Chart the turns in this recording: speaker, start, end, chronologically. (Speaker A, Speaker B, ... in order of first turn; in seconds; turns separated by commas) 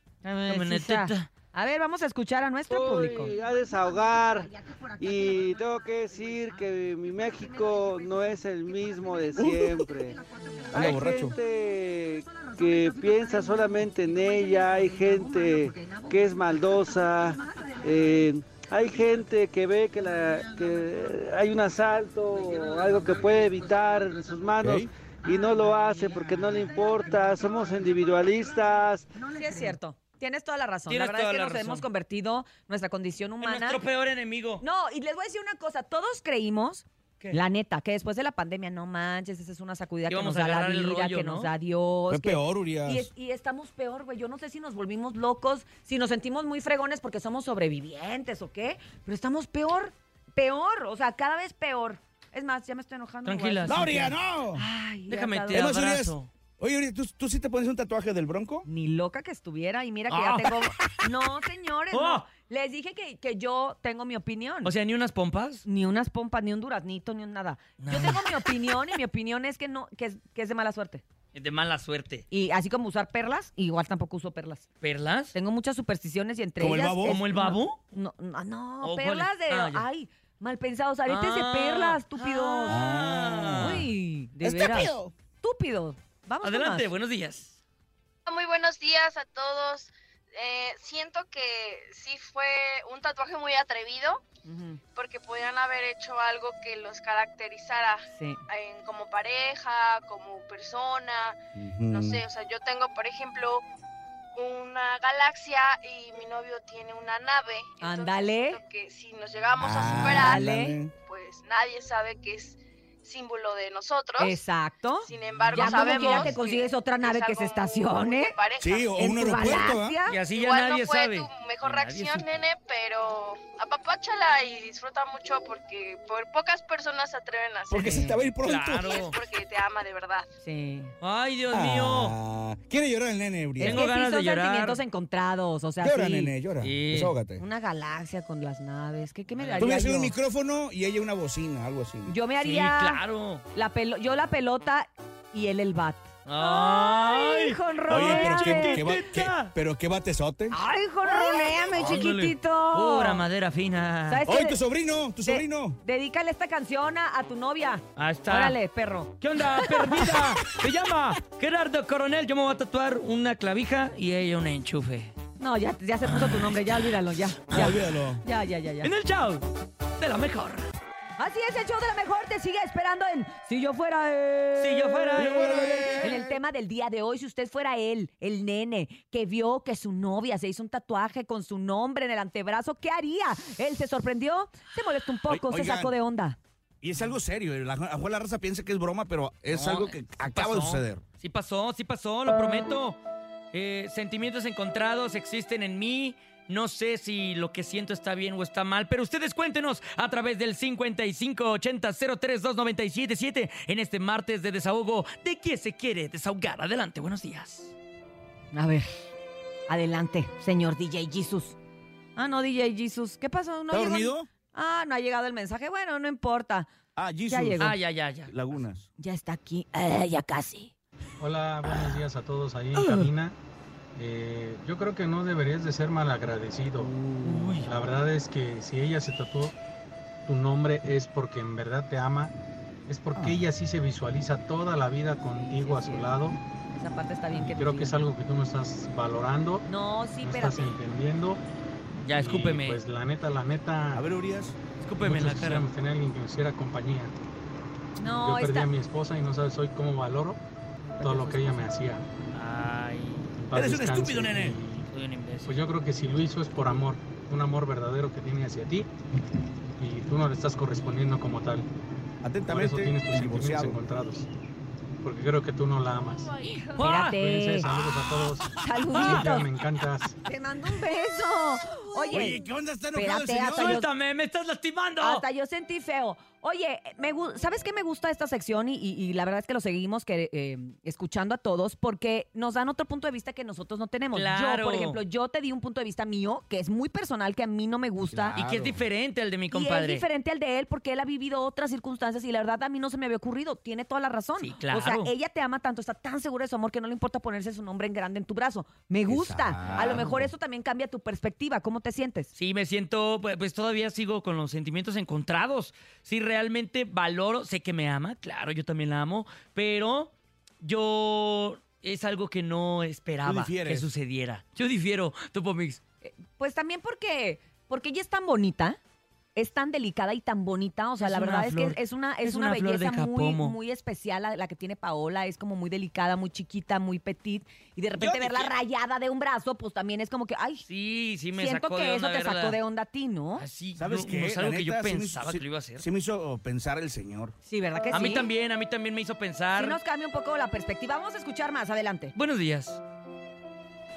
Speaker A: 0.2-3.3, Speaker B: 0.5-1.3, Speaker C: 2.7-29.1, Speaker D: 9.4-9.9, Speaker D: 10.7-11.4, Speaker D: 24.6-24.9, Speaker A: 29.3-33.8, Speaker B: 30.9-31.9, Speaker B: 33.4-34.6, Speaker A: 34.6-55.7, Speaker B: 40.1-41.5, Speaker D: 42.1-43.1, Speaker B: 53.2-54.1, Speaker D: 53.7-54.6, Speaker B: 55.1-56.3, Speaker D: 55.5-58.7, Speaker A: 58.7-64.7, Speaker B: 60.1-61.0, Speaker B: 61.9-62.3, Speaker B: 64.6-65.6, Speaker A: 65.6-71.0, Speaker B: 67.8-68.8, Speaker B: 71.3-72.3, Speaker A: 72.3-74.7, Speaker B: 74.8-75.3, Speaker A: 75.3-82.8, Speaker D: 76.6-77.2, Speaker B: 77.0-77.8, Speaker B: 78.8-79.8, Speaker B: 81.1-83.9, Speaker D: 82.7-83.9, Speaker A: 83.5-86.9, Speaker D: 84.4-85.1, Speaker B: 86.4-87.6, Speaker E: 88.3-94.2, Speaker A: 94.5-94.8, Speaker E: 95.0-101.4, Speaker A: 98.1-98.4, Speaker D: 101.5-102.2, Speaker E: 101.9-103.6, Speaker E: 104.4-114.4, Speaker A: 107.8-108.6, Speaker D: 109.6-111.0, Speaker A: 109.8-110.8, Speaker A: 114.2-118.3, Speaker E: 115.0-119.0, Speaker B: 115.5-116.4, Speaker D: 118.6-120.0, Speaker A: 119.0-120.2, Speaker B: 120.1-122.2, Speaker E: 120.3-128.0, Speaker A: 121.6-122.1, Speaker D: 127.7-129.0, Speaker A: 127.8-128.2, Speaker B: 128.4-129.2, Speaker E: 128.9-130.3, Speaker A: 130.4-130.9, Speaker B: 131.0-132.1, Speaker D: 131.5-133.9, Speaker A: 133.6-136.3, Speaker B: 133.6-134.8, Speaker D: 135.8-137.4, Speaker B: 136.6-137.1, Speaker A: 137.4-140.1, Speaker B: 139.4-139.8, Speaker D: 139.6-142.2, Speaker A: 142.1-143.0, Speaker B: 142.4-143.4, Speaker A: 143.5-148.9, Speaker B: 146.3-149.5, Speaker D: 147.9-150.6, Speaker A: 150.5-153.3, Speaker B: 151.1-154.2, Speaker A: 154.1-154.6, Speaker D: 154.3-155.8, Speaker A: 155.2-160.2, Speaker B: 157.9-158.6, Speaker B: 159.2-165.1, Speaker A: 165.4-168.9, Speaker B: 166.0-166.9, Speaker D: 167.5-168.2, Speaker B: 168.8-169.4, Speaker B: 170.0-170.7, Speaker A: 171.2-186.4, Speaker B: 174.6-176.1, Speaker D: 175.2-176.4, Speaker D: 185.3-185.9, Speaker D: 186.8-191.0, Speaker B: 189.5-193.0, Speaker B: 193.5-207.7, Speaker A: 208.5-209.0, Speaker A: 209.7-211.6, Speaker A: 212.2-216.7, Speaker D: 213.7-214.3, Speaker D: 216.9-218.9, Speaker A: 217.3-217.7, Speaker B: 217.6-218.6, Speaker A: 219.0-220.7, Speaker F: 221.2-223.4, Speaker F: 223.9-226.9, Speaker B: 226.8-227.7, Speaker A: 227.2-227.6, Speaker F: 227.6-229.6, Speaker F: 230.3-232.3, Speaker F: 232.9-236.4, Speaker D: 233.1-233.4, Speaker A: 235.3-236.2, Speaker A: 236.7-238.0, Speaker F: 237.4-239.7, Speaker A: 239.7-240.8, Speaker F: 240.2-241.4, Speaker B: 242.0-242.8, Speaker F: 242.2-244.1, Speaker D: 243.9-244.6, Speaker B: 244.8-245.7, Speaker F: 245.0-247.1, Speaker A: 248.0-248.7, Speaker F: 248.2-250.4, Speaker F: 251.0-252.1, Speaker B: 251.0-251.6, Speaker B: 252.3-253.3, Speaker F: 253.4-254.9, Speaker D: 253.5-254.6, Speaker B: 254.9-255.6, Speaker F: 255.4-258.9, Speaker F: 259.8-261.7, Speaker D: 262.2-263.8, Speaker F: 262.4-264.3, Speaker F: 265.0-266.3, Speaker A: 266.7-267.7, Speaker B: 266.8-267.2, Speaker F: 267.1-270.2, Speaker A: 268.6-269.5, Speaker A: 270.2-273.9, Speaker D: 272.1-273.8, Speaker B: 273.5-275.2, Speaker A: 275.0-288.4, Speaker B: 284.1-285.0, Speaker D: 288.1-288.8, Speaker B: 288.4-290.1, Speaker A: 289.5-302.3, Speaker B: 294.4-295.1, Speaker D: 299.1-300.3, Speaker B: 299.7-300.1, Speaker B: 302.3-315.8, Speaker D: 313.2-313.9, Speaker A: 316.0-318.8, Speaker A: 319.3-330.7, Speaker B: 321.0-323.6, Speaker D: 328.0-328.5, Speaker B: 330.7-332.6, Speaker A: 331.3-333.4, Speaker B: 333.4-335.9, Speaker D: 333.8-337.3, Speaker A: 337.4-338.3, Speaker B: 337.9-339.8, Speaker A: 339.6-342.1, Speaker B: 342.1-342.8